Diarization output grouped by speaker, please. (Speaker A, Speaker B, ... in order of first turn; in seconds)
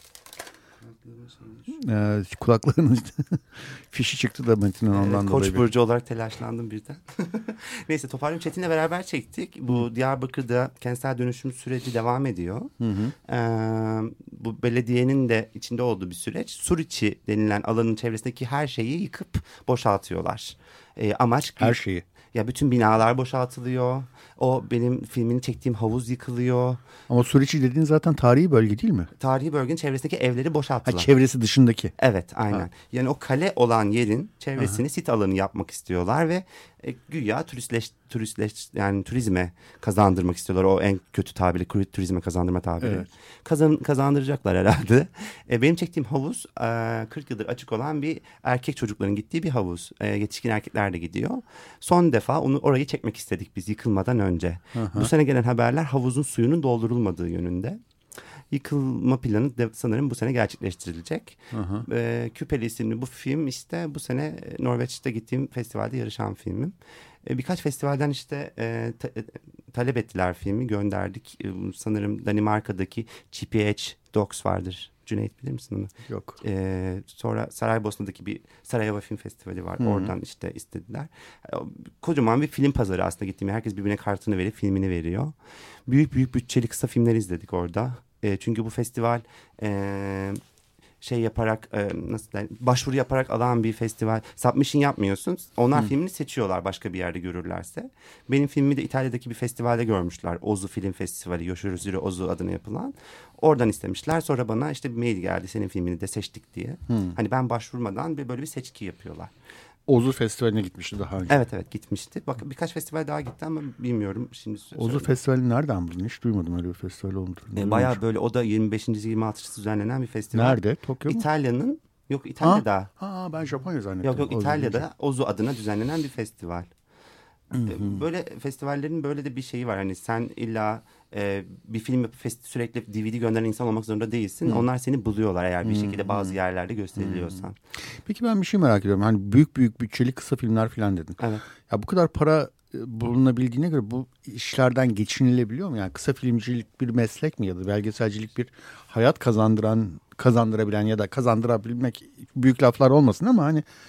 Speaker A: 0.8-1.7, 4.9-12.7, 13.2-21.8, 22.3-26.8, 29.2-31.1, 32.0-57.8, 58.5-85.3, 85.9-90.4, 91.0-109.3, 111.3-115.1, 117.6-122.9, 124.0-126.7, 127.5-137.6
Speaker B: 1.7-5.7, 12.8-13.1, 21.6-22.0, 27.1-29.1, 30.9-31.9, 42.8-43.1, 54.7-55.1, 61.5-61.9, 76.1-76.4, 79.8-80.1, 106.9-107.2, 109.9-111.4, 114.8-118.0, 120.3-121.2, 122.4-124.9, 127.5-128.0, 135.6-136.4, 137.0-137.4, 138.1-153.7